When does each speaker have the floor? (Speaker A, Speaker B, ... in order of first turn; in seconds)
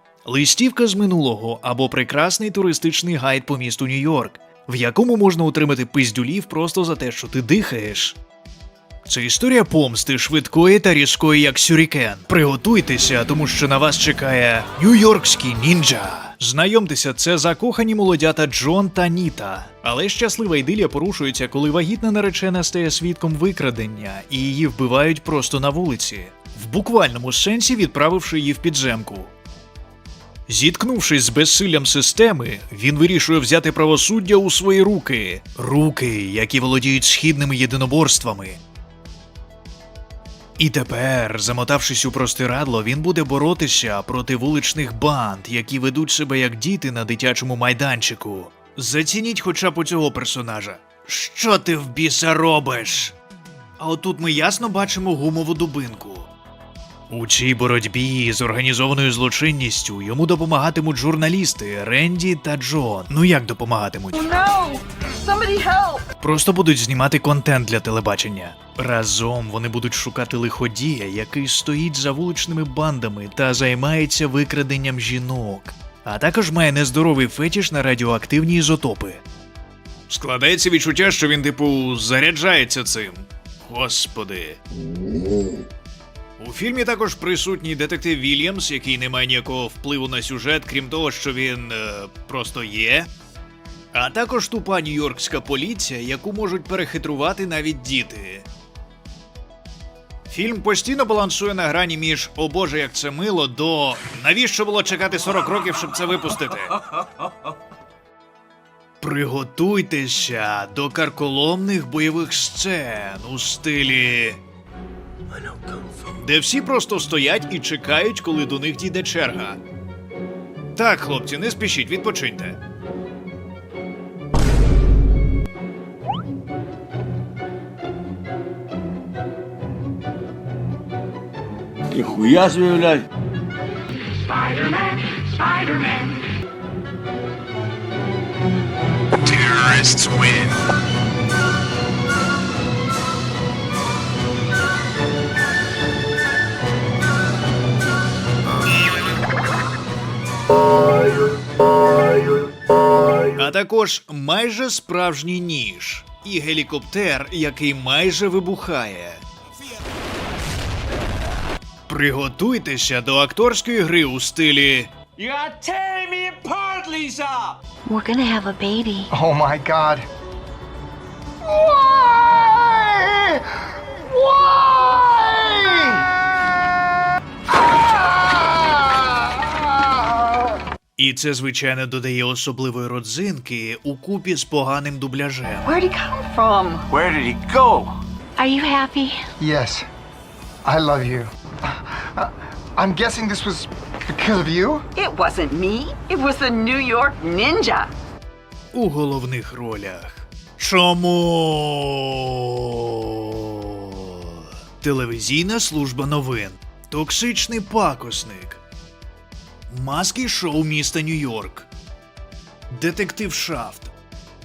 Speaker A: 0.2-8.2, 9.1-29.3, 30.5-38.6, 40.6-53.1, 53.8-56.3, 57.1-64.3, 66.2-79.2, 80.1-84.6, 86.4-93.1, 93.9-98.5, 100.3-106.8, 109.0-114.4, 116.2-119.6, 120.7-122.6, 139.4-140.5, 153.3-159.2, 161.9-164.9, 181.0-185.7, 198.7-208.6, 209.7-211.7, 212.7-213.9
Speaker B: 64.1-66.0, 134.3-136.1, 185.6-186.9, 194.9-197.9
Speaker C: 115.4-115.8, 131.9-133.1, 165.2-167.5, 186.9-188.0
Speaker D: 167.8-169.1, 188.4-189.3
Speaker E: 169.1-170.1, 171.4-176.2, 178.3-179.0, 189.4-189.9, 190.6-194.8